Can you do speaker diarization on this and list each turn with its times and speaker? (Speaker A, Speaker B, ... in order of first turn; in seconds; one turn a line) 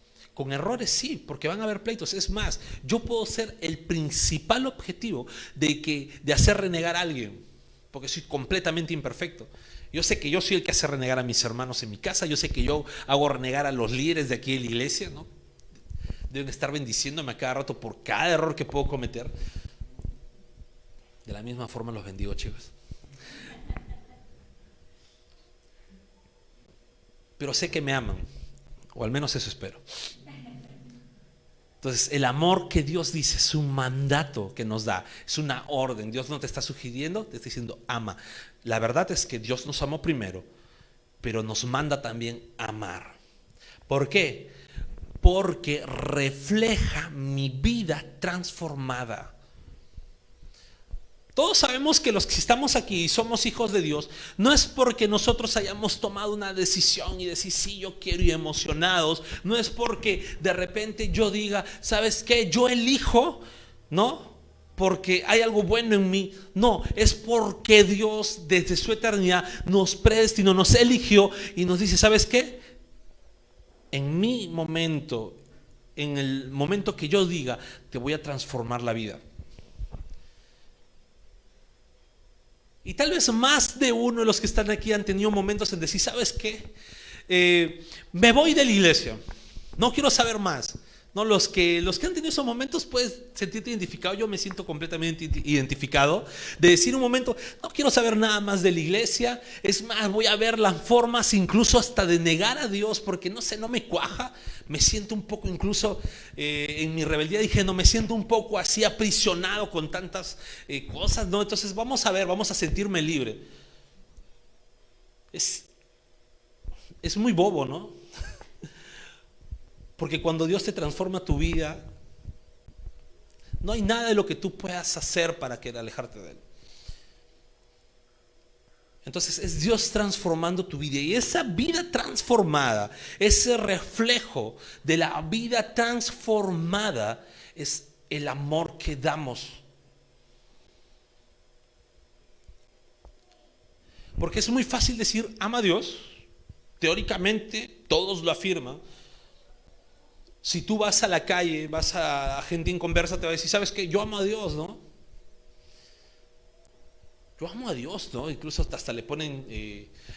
Speaker A: 0.3-15.3
Speaker A: 16.3-19.3
Speaker A: 21.2-22.7
Speaker A: 27.4-28.3
Speaker A: 28.9-29.8
Speaker A: 31.8-40.5
Speaker A: 41.2-43.2
Speaker A: 43.9-44.5
Speaker A: 45.2-49.4
Speaker A: 51.4-72.6
Speaker A: 73.9-75.4
Speaker A: 76.0-79.2
Speaker A: 82.8-86.7
Speaker A: 87.3-89.2
Speaker A: 89.8-113.4
Speaker A: 115.3-115.7
Speaker A: 117.0-117.9
Speaker A: 120.0-121.8
Speaker A: 123.6-126.4
Speaker A: 129.0-139.6
Speaker A: 144.2-146.2
Speaker A: 146.8-148.8
Speaker A: 150.4-154.8
Speaker A: 157.4-159.9